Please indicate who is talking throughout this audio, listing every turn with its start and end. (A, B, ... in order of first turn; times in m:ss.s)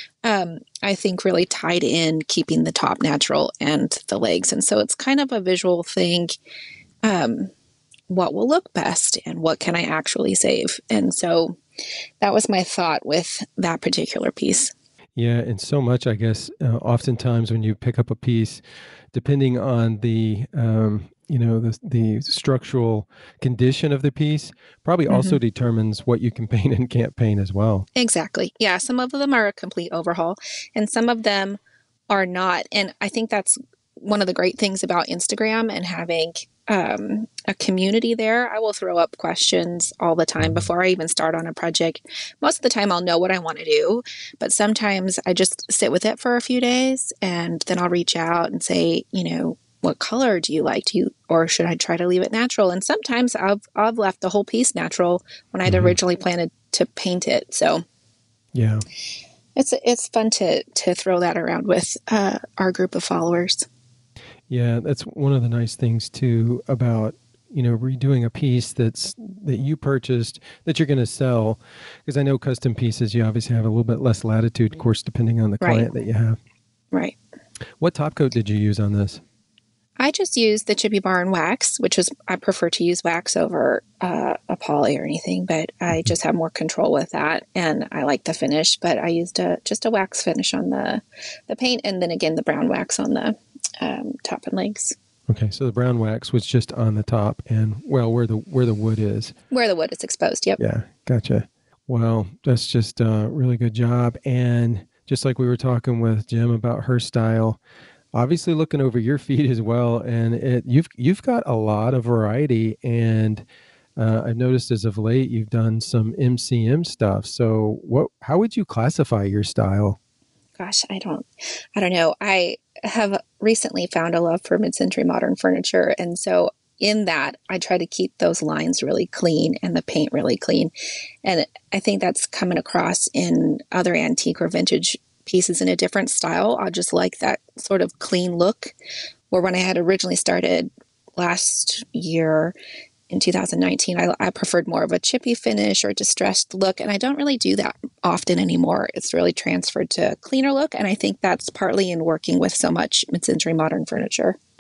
0:00.2-0:06.4 A
0:07.0-0:07.5 A
0:08.1-0:11.6 A
0:12.2-0:14.7 A
0:15.2-0:18.6 B
0:19.1-0:27.8 B
0:25.1-0:25.4 A
0:28.0-0:57.8 A
0:55.6-0:55.9 B
0:58.5-0:58.8 B
0:59.6-1:03.7 A
1:04.5-1:16.4 B
1:15.6-1:15.9 A
1:17.8-1:19.2 B
1:20.0-1:34.9 A
1:35.3-1:39.3 B
1:39.5-1:40.6 A
1:40.6-1:47.6 B
1:48.1-1:53.4 B
1:54.0-2:00.0 B
2:00.6-2:10.7 A
2:11.2-2:18.7 A
2:19.3-2:22.5 A
2:23.1-2:34.4 A